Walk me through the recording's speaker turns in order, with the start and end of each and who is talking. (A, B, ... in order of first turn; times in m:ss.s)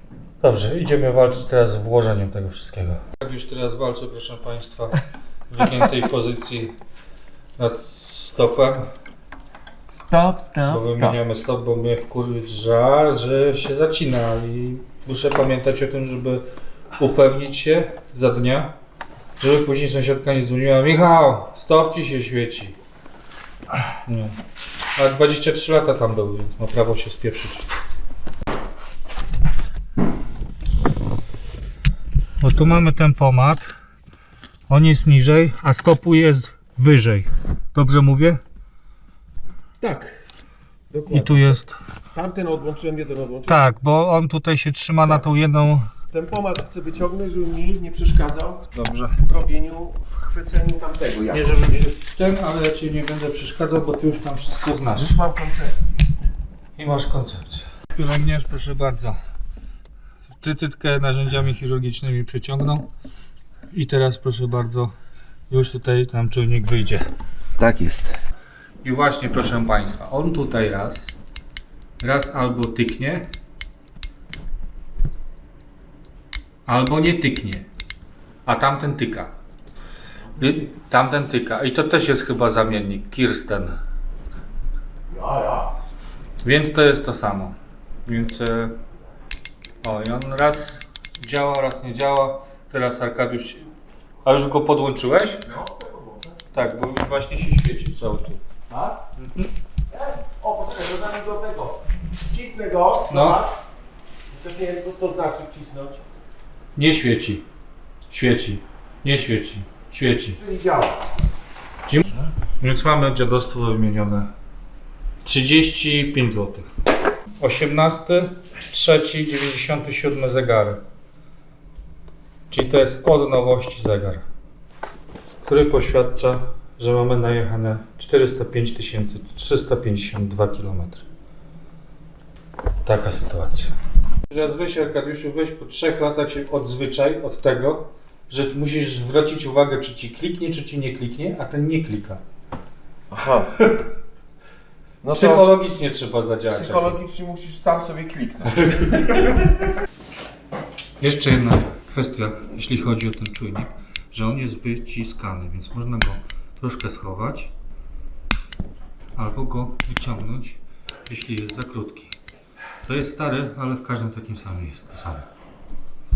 0:00.4-0:06.7 A
0:07.6-0:08.9 A
0:09.9-0:11.2 B
0:10.6-0:16.4 A
0:17.0-0:18.7 A
0:19.4-0:22.8 A
0:23.9-0:24.4 A
0:25.0-0:27.7 A
0:32.4-0:33.7 A
0:34.7-0:38.4 A
0:39.8-0:40.1 B
0:40.9-0:41.6 B
0:41.1-0:41.8 A
0:42.1-0:43.6 B
0:43.5-0:45.9 A
0:46.1-0:48.7 B
0:48.7-0:49.2 A
0:49.2-0:51.8 B
0:51.3-0:55.2 A
0:54.9-0:55.9 B
0:56.8-0:59.2 A
1:00.4-1:02.9 A
1:03.7-1:04.9 A
1:05.5-1:07.0 A
1:07.6-1:08.1 B
1:08.8-1:11.1 A
1:12.0-1:13.3 A
1:16.7-1:17.6 A
1:18.4-1:19.3 A
1:20.4-1:23.8 A
1:25.1-1:25.7 B
1:26.4-1:28.8 A
1:29.8-1:33.7 A
1:34.2-1:35.5 A
1:35.4-1:36.3 B
1:36.5-1:38.4 A
1:39.2-1:39.5 A
1:39.9-1:43.6 B
1:43.1-1:43.4 A
1:44.3-1:46.0 B
1:46.7-1:47.4 A
1:48.1-1:50.4 A
1:50.4-1:51.0 B
1:51.9-1:54.3 A
1:55.2-1:56.7 A
1:57.4-2:00.8 A
2:02.5-2:04.2 A
2:05.4-2:11.0 A
2:12.8-2:13.7 A
2:14.3-2:22.2 A
2:23.1-2:23.5 B
2:25.0-2:25.4 B
2:25.1-2:27.0 A
2:26.5-2:29.1 B
2:28.6-2:29.2 A
2:31.0-2:37.5 A
2:39.1-2:42.2 A
2:42.8-2:45.3 A